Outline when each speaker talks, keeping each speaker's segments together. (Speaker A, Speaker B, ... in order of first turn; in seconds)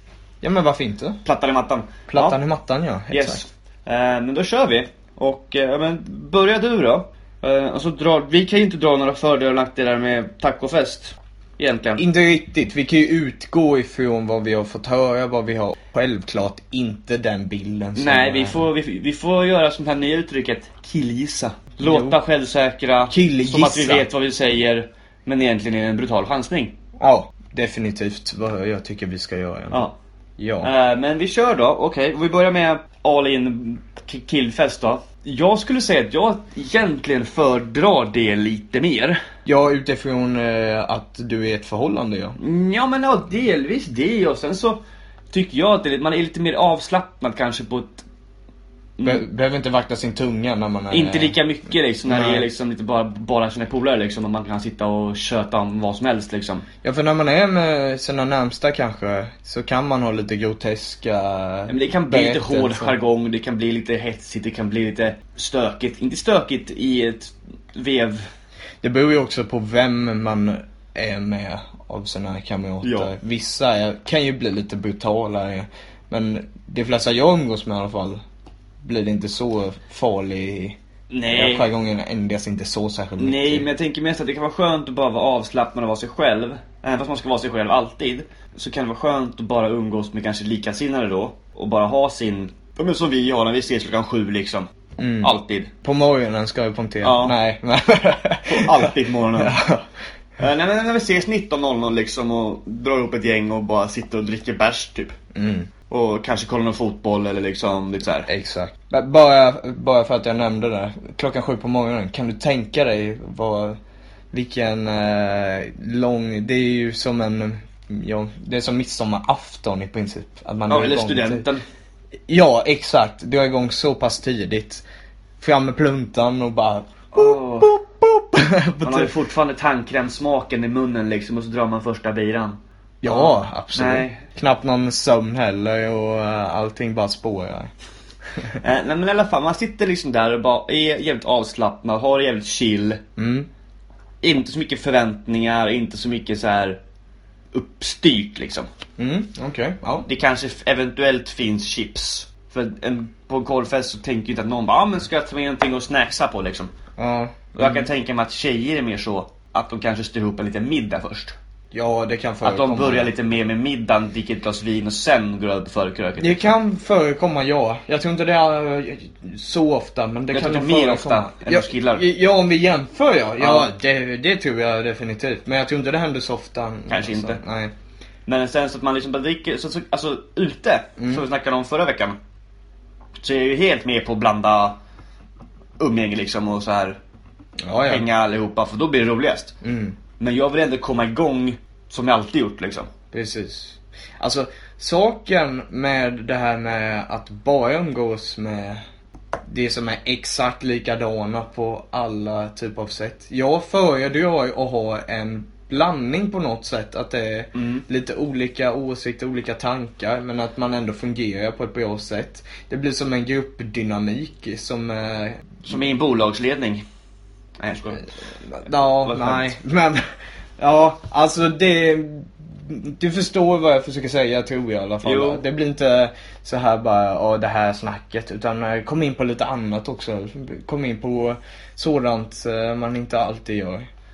Speaker A: 0.4-1.2, 2.1-3.4, 12.0-18.6, 21.8-22.2, 23.1-24.1, 27.0-30.7, 39.4-42.4, 49.0-51.4, 52.1-52.5, 56.8-62.9, 68.8-78.2, 78.8-80.8, 81.3-83.7, 95.0-95.3, 95.8-99.8, 105.3-105.7, 108.3-113.8, 114.3-121.5, 122.3-124.8, 125.4-129.1, 133.0-137.7, 143.2-143.5, 149.0-150.1, 157.0-157.9, 161.7-163.1, 166.2-177.7, 181.0-181.2, 187.6-188.0, 189.6-190.0, 193.1-198.8, 199.4-215.5, 218.5-220.0, 220.6-233.9
Speaker B: 1.2-2.4, 3.1-12.0, 17.9-26.7, 29.7-29.9, 30.6-39.2, 42.4-44.8, 45.3-48.0, 49.0-49.2, 50.9-56.6, 61.7-68.2, 72.8-73.1, 81.1-81.7, 83.2-94.7, 95.2-95.7, 97.0-97.3, 98.5-99.5, 100.4-105.2, 105.9-108.3, 120.7-121.6, 127.1-127.7, 128.8-134.2, 138.6-143.0, 144.2-146.8, 147.5-148.7, 150.1-156.7, 157.6-161.3, 162.4-166.5, 170.3-172.0, 173.4-173.7, 176.9-177.4, 178.2-182.2, 183.2-184.8, 185.8-187.0, 187.8-189.5, 190.2-192.9, 207.5-207.8, 215.7-216.8, 217.6-218.1, 218.9-219.5, 225.0-225.4